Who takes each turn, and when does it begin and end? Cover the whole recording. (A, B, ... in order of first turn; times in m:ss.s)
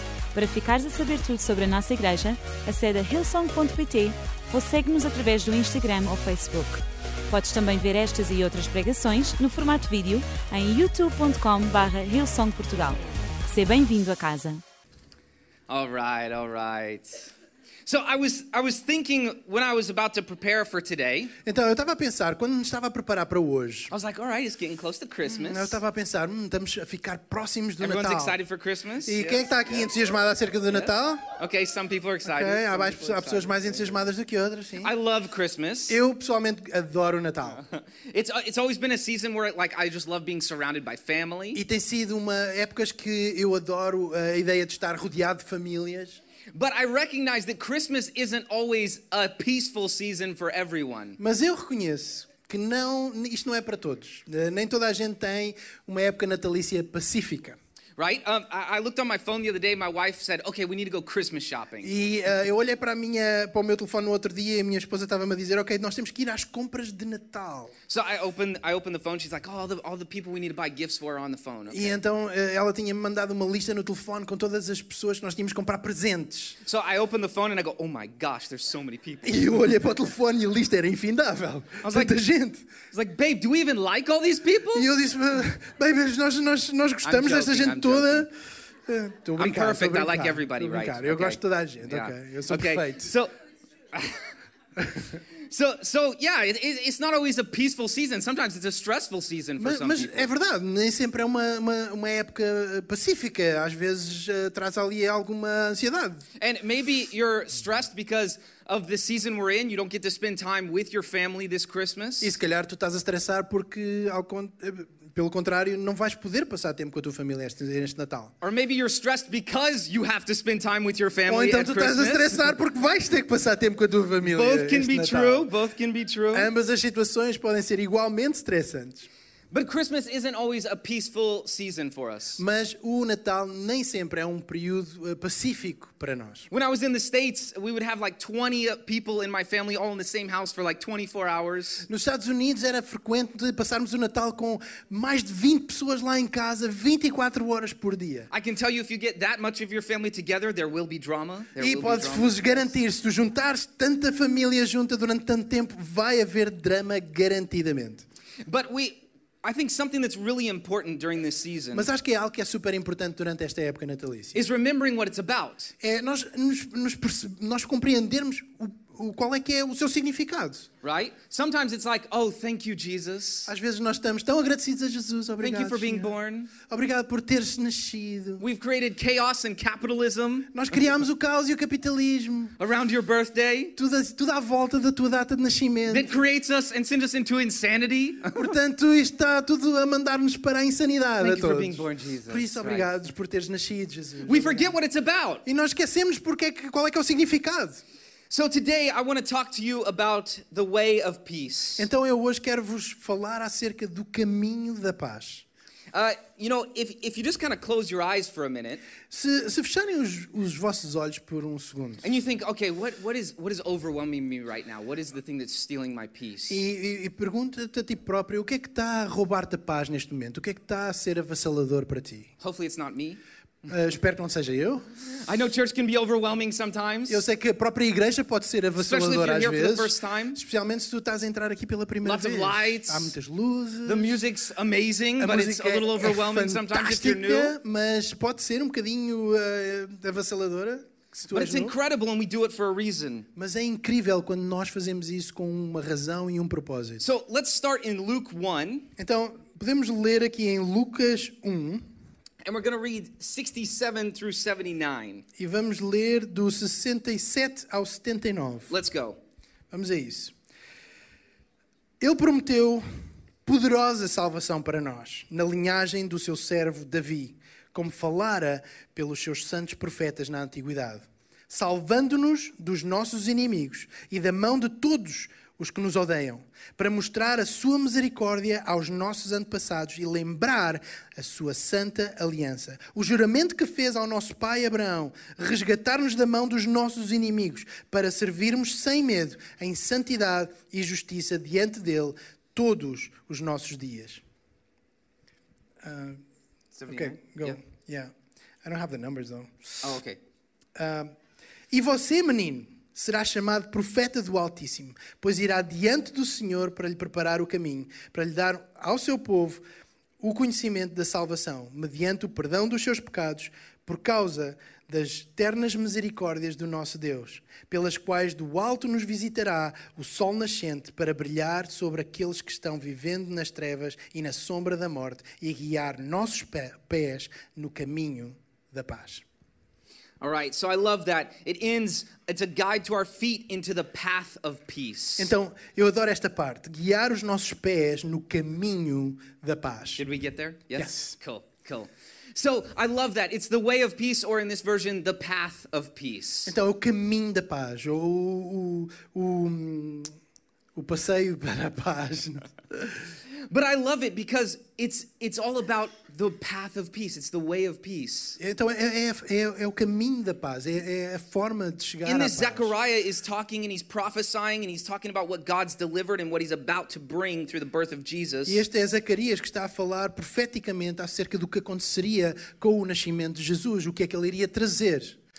0:00.3-0:14.6 A
0:15.7-0:17.3 B
0:17.9-0:21.4 B
0:21.4-0:23.9 C
0:23.9-0:25.8 B
0:25.3-0:28.4 C
0:27.8-0:29.9 B
0:29.0-0:31.2 C
0:30.7-0:34.0 B
0:32.2-0:34.9 C
0:34.8-0:36.0 B
0:35.9-0:37.6 C
0:37.6-0:41.6 B
0:41.5-0:46.2 C
0:46.5-0:51.2 B
0:51.2-0:57.6 C
0:58.0-1:01.9 B
1:01.8-1:07.8 C
1:07.9-1:12.0 B
1:11.7-1:16.6 C
1:16.6-1:19.4 B
1:19.2-1:22.7 C
1:21.8-1:22.2 B
1:22.9-1:25.0 B
1:24.7-1:28.3 C
1:27.0-1:28.3 B
1:28.8-1:33.1 C
1:29.4-1:33.3 B
1:33.9-1:34.3 B
1:35.5-1:40.3 B
1:39.6-1:46.2 C
1:46.4-1:52.3 B
1:52.2-1:58.3 C
1:58.4-2:02.4 B
2:01.3-2:05.5 C
2:04.2-2:06.5 B
2:06.3-2:09.1 C
2:09.5-2:12.4 B
2:12.4-2:16.5 C
2:16.5-2:21.9 B
2:21.9-2:28.3 C
2:28.3-2:32.7 B
2:31.6-2:38.0 C
2:38.4-2:41.9 B
2:41.7-2:44.4 C
2:44.3-2:45.7 B
2:45.8-2:50.7 C
2:50.8-2:53.5 B
2:53.5-2:58.4 C
2:55.4-2:56.5 B
2:58.4-3:00.8 B
3:00.5-3:02.6 C
3:02.6-3:03.8 B
3:03.8-3:06.1 C
3:05.9-3:08.5 B
3:08.3-3:14.8 C
3:11.2-3:12.9 B
3:14.2-3:15.4 B
3:15.4-3:17.8 C
3:18.3-3:21.9 B
3:21.8-3:25.4 C
3:25.9-3:28.8 B
3:29.1-3:32.0 C
3:32.0-3:36.6 B
3:36.5-3:42.3 C
3:42.4-3:43.2 B
3:43.6-3:44.9 C
3:45.2-3:47.2 B
3:47.1-3:54.2 C
3:48.8-3:50.4 B
3:52.0-3:53.1 B
3:53.8-3:57.6 B
3:55.2-4:01.8 C
4:01.3-4:03.3 B
4:03.4-4:07.0 C
4:07.0-4:08.9 B
4:09.0-4:11.8 C
4:12.4-4:15.2 B
4:15.4-4:18.8 C
4:18.7-4:19.2 B
4:19.7-4:20.3 C
4:22.0-4:22.8 C
4:23.4-4:54.2 C
4:55.8-4:56.2 C
4:56.8-4:57.6 B
4:56.9-4:58.1 C
4:58.6-4:59.8 C
4:59.8-5:00.2 B
5:00.8-5:01.2 C
5:01.7-5:09.6 C
5:10.2-5:29.2 C
5:30.2-5:35.3 B
5:35.2-5:40.0 C
5:40.0-5:46.5 B
5:40.7-5:41.2 C
5:46.5-5:50.2 C
5:50.8-5:53.1 C
5:53.5-5:58.4 B
5:58.4-6:02.7 C
6:02.0-6:08.6 B
6:08.5-6:15.2 C